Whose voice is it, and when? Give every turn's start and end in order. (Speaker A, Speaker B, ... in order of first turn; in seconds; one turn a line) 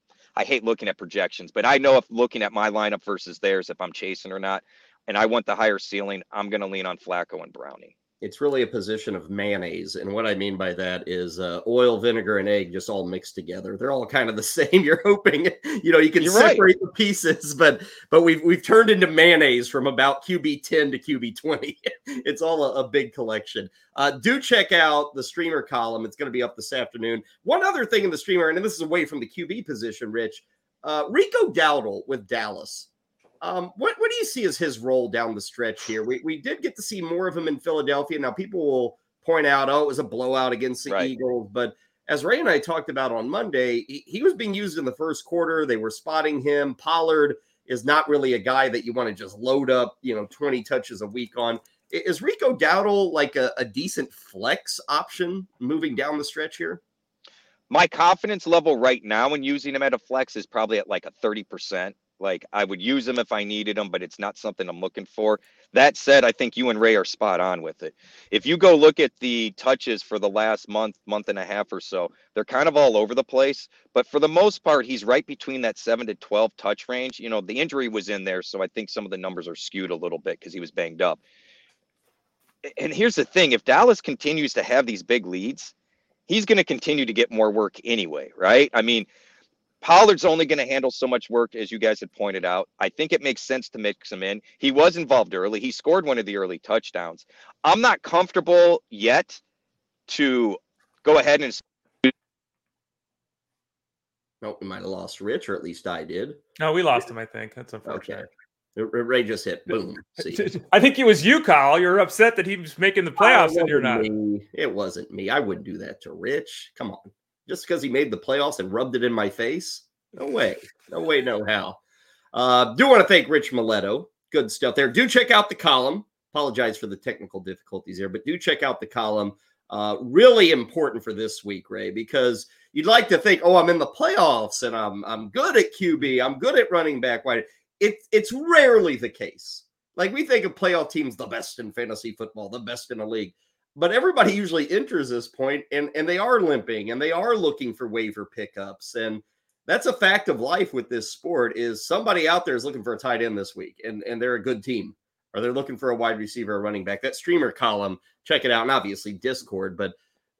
Speaker A: 0.3-7.9
Speaker B: 8.2-32.9
Speaker A: 16.2-16.6
Speaker B: 33.4-56.8
Speaker A: 57.7-81.2
Speaker A: 82.7-85.7
Speaker A: 86.3-89.1
Speaker A: 89.8-99.4
Speaker A: 100.1-101.6
Speaker B: 104.4-106.4
Speaker C: 106.6-108.3
Speaker B: 107.8-110.5
Speaker C: 110.2-114.1
Speaker B: 113.2-121.8
Speaker B: 122.3-159.9